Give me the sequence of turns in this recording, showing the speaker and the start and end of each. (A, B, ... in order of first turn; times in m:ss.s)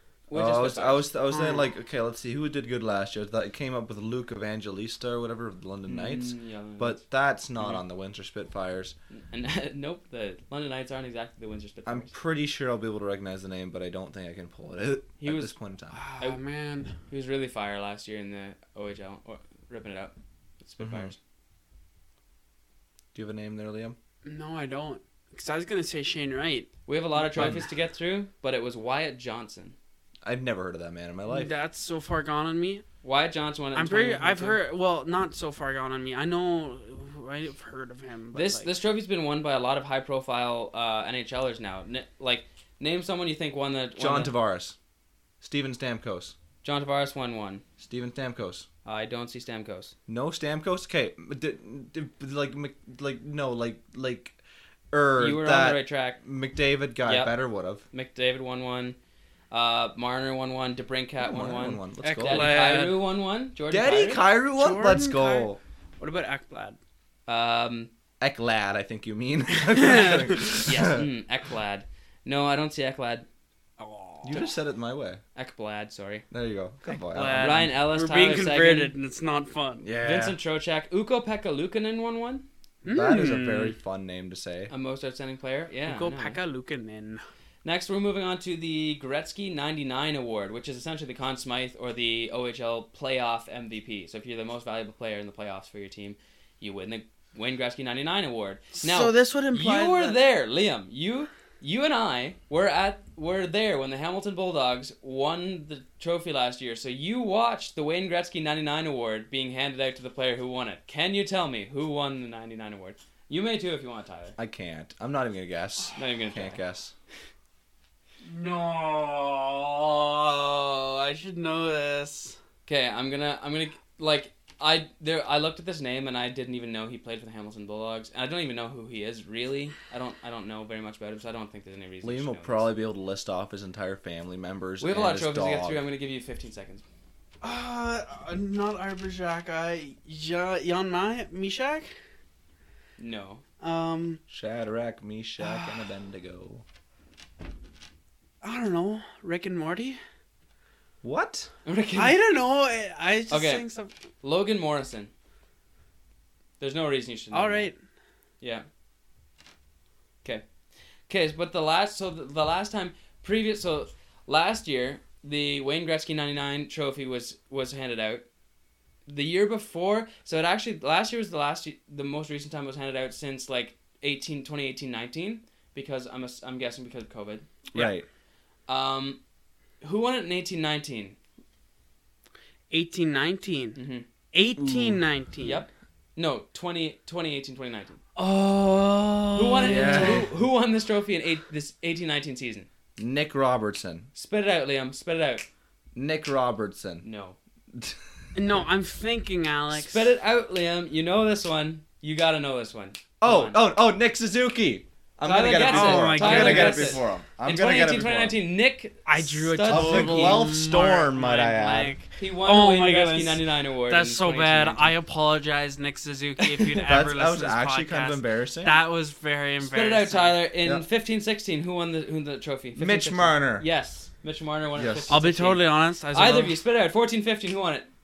0:00.3-0:01.0 A
0:00.3-0:08.9 B
0:01.3-0:01.7 C
0:05.9-0:07.0 A
0:09.1-0:12.1 A
0:11.8-0:16.0 B
0:15.2-0:15.5 A
0:15.9-0:17.0 C
0:17.1-0:21.2 A
0:20.8-0:21.1 B
0:23.1-0:24.0 B
0:24.2-0:26.7 C
0:26.8-0:29.7 A
0:27.3-0:27.6 B
0:30.2-0:31.5 B
0:31.3-0:32.8 C
0:33.0-0:34.6 A
0:33.7-0:38.7 C
0:38.3-0:44.3 A
0:44.0-0:44.8 B
0:45.4-0:46.3 B
0:46.6-0:47.6 A
0:47.8-0:48.7 B
0:48.8-0:49.9 A
0:50.1-0:54.4 B
0:54.9-0:57.8 B
0:55.2-0:56.2 A
0:57.0-0:57.4 A
0:57.9-0:59.0 A
0:59.5-1:04.2 A
1:01.2-1:02.5 B
1:02.0-1:03.0 C
1:03.7-1:05.6 B
1:04.6-1:06.8 C
1:07.3-1:07.9 A
1:08.2-1:11.0 B
1:09.8-1:10.3 C
1:10.6-1:13.2 A
1:13.8-1:14.5 C
1:14.2-1:15.2 B
1:15.3-1:16.2 A
1:16.3-1:17.7 B
1:16.9-1:19.8 C
1:17.2-1:18.9 A
1:19.8-1:20.4 B
1:20.0-1:22.4 A
1:22.8-1:23.7 C
1:22.9-1:24.7 B
1:24.7-1:26.4 A
1:25.8-1:27.2 C
1:27.6-1:54.4 A
1:38.8-1:40.2 C
1:54.4-1:56.9 B
1:56.0-1:56.6 A
1:58.2-2:02.4 C
2:02.6-2:12.7 A
2:12.0-2:15.8 B
2:14.8-2:16.8 A
2:17.4-2:21.9 C
2:23.0-2:23.4 A
2:23.6-2:24.2 C
2:24.3-2:26.6 B
2:25.4-2:25.7 C
2:28.4-2:30.0 C
2:31.0-2:31.5 B
2:31.6-2:32.2 A
2:31.9-2:33.9 C
2:33.3-2:33.6 A
2:34.2-2:35.1 A
2:36.6-2:37.7 A
2:37.3-2:37.8 C
2:41.1-2:48.2 A
2:49.1-2:57.9 A
2:57.7-2:58.0 B
2:58.7-2:59.2 A
2:59.8-3:01.2 A
3:02.7-3:03.8 C
3:03.8-3:04.0 A
3:04.3-3:05.6 C
3:04.6-3:05.0 B
3:05.4-3:08.0 A
3:08.2-3:10.3 C
3:09.3-3:12.7 A
3:09.6-3:10.3 B
3:13.0-3:14.1 B
3:14.1-3:15.5 A
3:15.9-3:17.0 B
3:17.0-3:17.4 A
3:17.7-3:18.0 B
3:18.3-3:20.1 C
3:19.7-3:23.6 A
3:23.2-3:28.3 B
3:25.2-3:30.5 A
3:25.6-3:27.0 C
3:29.0-3:40.4 C
3:29.7-3:32.0 B
3:32.2-3:34.9 A
3:36.4-3:36.8 A
3:36.8-3:38.8 B
3:39.6-3:47.9 A
3:42.8-3:43.6 B
3:44.8-3:45.2 B
3:45.1-3:46.6 C